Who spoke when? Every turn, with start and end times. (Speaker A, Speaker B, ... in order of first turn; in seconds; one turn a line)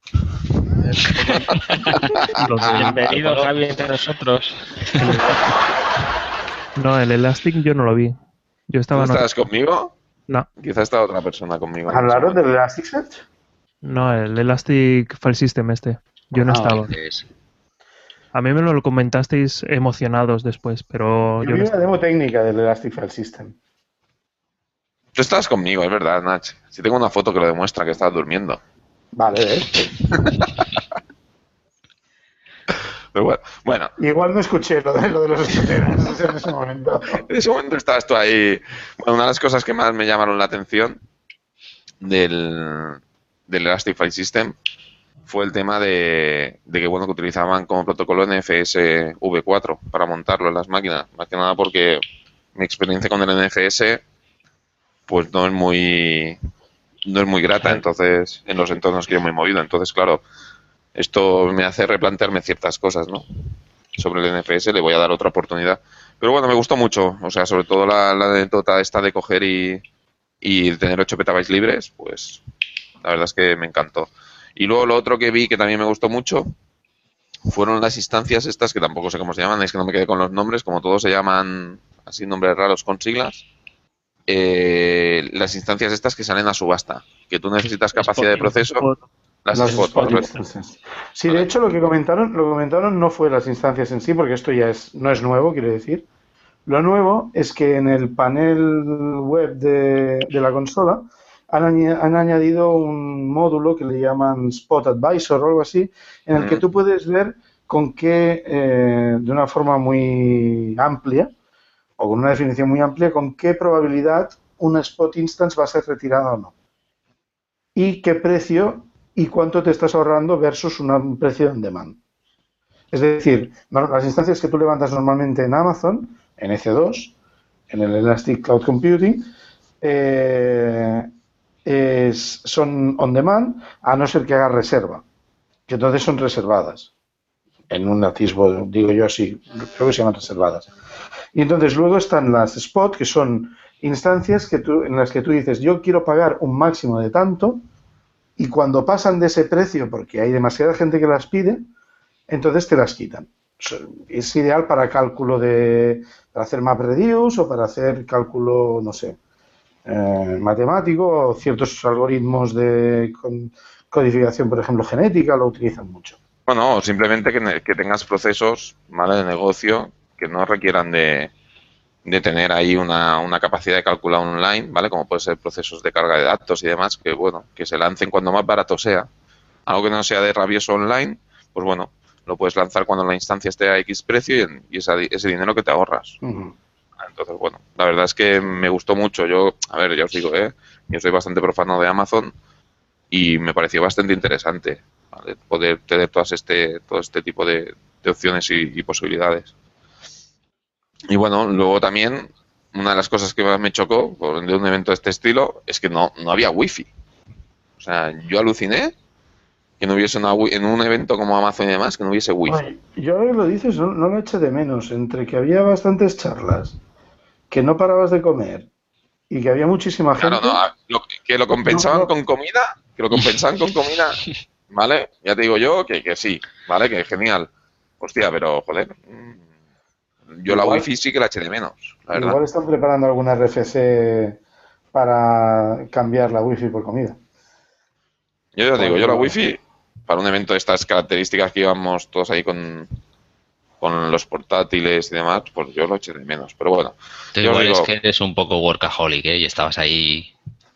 Speaker A: 0.8-3.4
Speaker B: 2.4-3.4
Speaker C: 2.7-5.4
Speaker B: 5.0-5.4
Speaker B: 6.8-8.1
Speaker B: 8.7-9.3
Speaker A: 8.9-9.9
Speaker A: 10.6-12.4
Speaker D: 11.9-13.2
Speaker B: 13.8-16.9
Speaker D: 16.4-16.8
Speaker E: 16.7-17.2
Speaker B: 18.3-21.8
Speaker D: 21.4-23.6
Speaker A: 25.1-28.6
Speaker D: 29.1-30.1
Speaker A: 30.1-30.6
Speaker A: 33.1-33.9
Speaker D: 34.0-37.2
Speaker A: 37.2-41.0
Speaker A: 42.0-44.5
Speaker A: 45.3-52.0
Speaker A: 52.5-54.0
Speaker A: 55.1-56.4
Speaker A: 57.0-60.2
Speaker A: 60.9-63.2
Speaker A: 64.0-69.8
Speaker A: 70.4-72.4
Speaker A: 73.0-76.5
Speaker A: 77.5-83.4
Speaker A: 84.3-88.8
Speaker B: 88.0-89.0
Speaker A: 89.4-90.3
Speaker D: 89.5-96.0
Speaker D: 96.7-111.3
Speaker A: 106.3-106.6
Speaker D: 112.0-116.5
Speaker D: 117.7-122.0
Speaker D: 122.9-127.1
Speaker D: 127.7-129.3
Speaker D: 129.8-131.1
Speaker D: 131.6-135.0
Speaker D: 135.7-136.9
Speaker D: 137.7-140.7
Speaker D: 141.3-147.6
Speaker D: 148.4-151.7
Speaker D: 152.3-159.2
Speaker D: 159.8-166.2
Speaker A: 166.5-171.3
Speaker A: 172.1-179.1
Speaker A: 179.7-186.2
Speaker D: 186.2-186.5
Speaker A: 187.0-192.3
Speaker A: 193.1-199.5
Speaker A: 201.1-206.9
Speaker A: 207.8-208.9
Speaker A: 209.8-212.6
Speaker D: 212.4-216.8
Speaker D: 217.5-218.7
Speaker D: 219.3-220.6
Speaker A: 220.2-229.4
Speaker D: 221.6-222.1
Speaker A: 230.3-232.4
Speaker D: 230.5-230.9
Speaker D: 232.1-234.4
Speaker D: 234.9-237.2
Speaker A: 238.6-242.9
Speaker D: 238.8-239.3
Speaker A: 243.8-247.9
Speaker E: 247.3-250.3